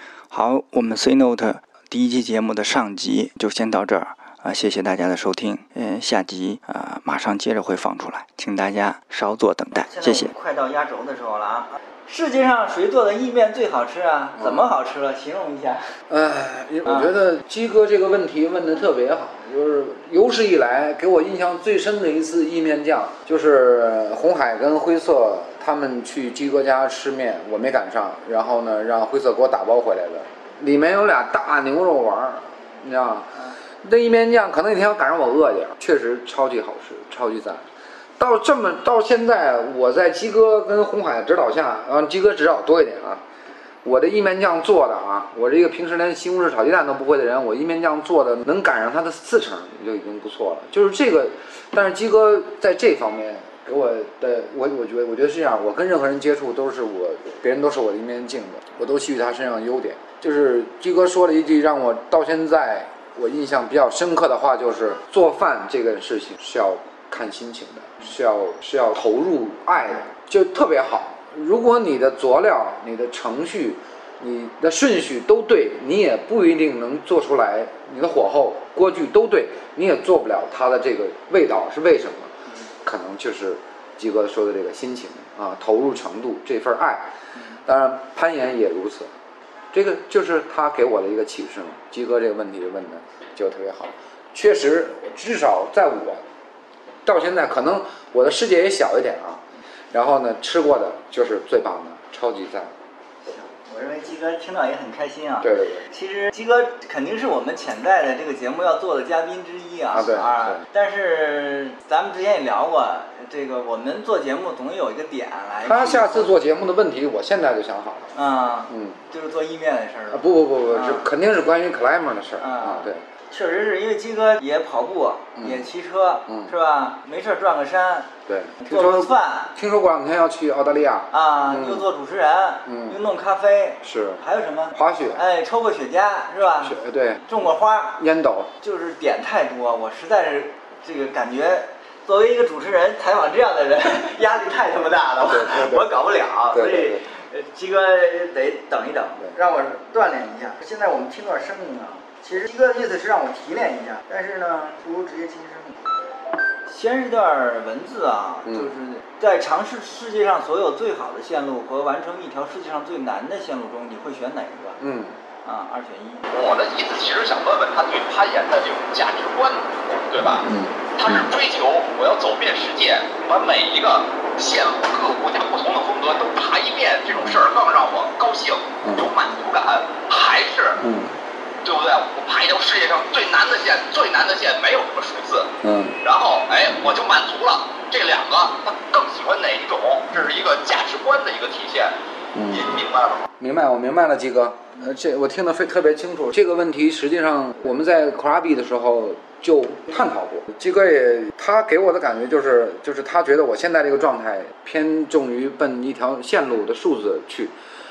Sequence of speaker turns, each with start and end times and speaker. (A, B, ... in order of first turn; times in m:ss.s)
0:00.3-0:10.3 A
0:09.8-0:15.9 B
0:14.4-0:14.7 C
0:16.1-0:37.6 C
0:16.8-0:17.1 B
0:38.2-0:43.2 C
0:43.8-1:22.3 C
1:22.8-1:27.1 C
1:27.6-1:29.1 C
1:29.7-1:36.2 C
1:37.0-1:42.7 C
1:43.2-1:56.3 B
1:45.4-1:45.8 C
1:49.9-1:50.6 C
1:55.6-1:58.1 C
1:58.1-2:01.1 B
1:58.7-1:59.0 C
2:00.1-2:03.0 C
2:02.4-2:09.5 B
2:05.4-2:05.6 C
2:08.3-2:11.8 C
2:11.1-2:18.0 B
2:12.6-2:13.0 C
2:13.8-2:14.2 C
2:14.7-2:15.2 C
2:16.6-2:17.2 C
2:18.0-2:18.5 C
2:18.6-2:35.8 B
2:25.3-2:25.9 C
2:26.5-2:27.0 C
2:36.7-2:44.8 B
2:38.4-2:38.7 C
2:44.8-2:45.1 C
2:45.4-2:46.3 B
2:46.3-2:50.4 D
2:50.3-2:51.2 C
2:51.0-3:00.8 D
2:58.8-2:59.1 C
3:00.8-3:01.1 C
3:01.6-3:05.5 D
3:05.6-3:06.0 C
3:06.0-3:11.9 D
3:12.3-3:12.8 C
3:12.5-3:13.3 D
3:13.4-3:27.5 C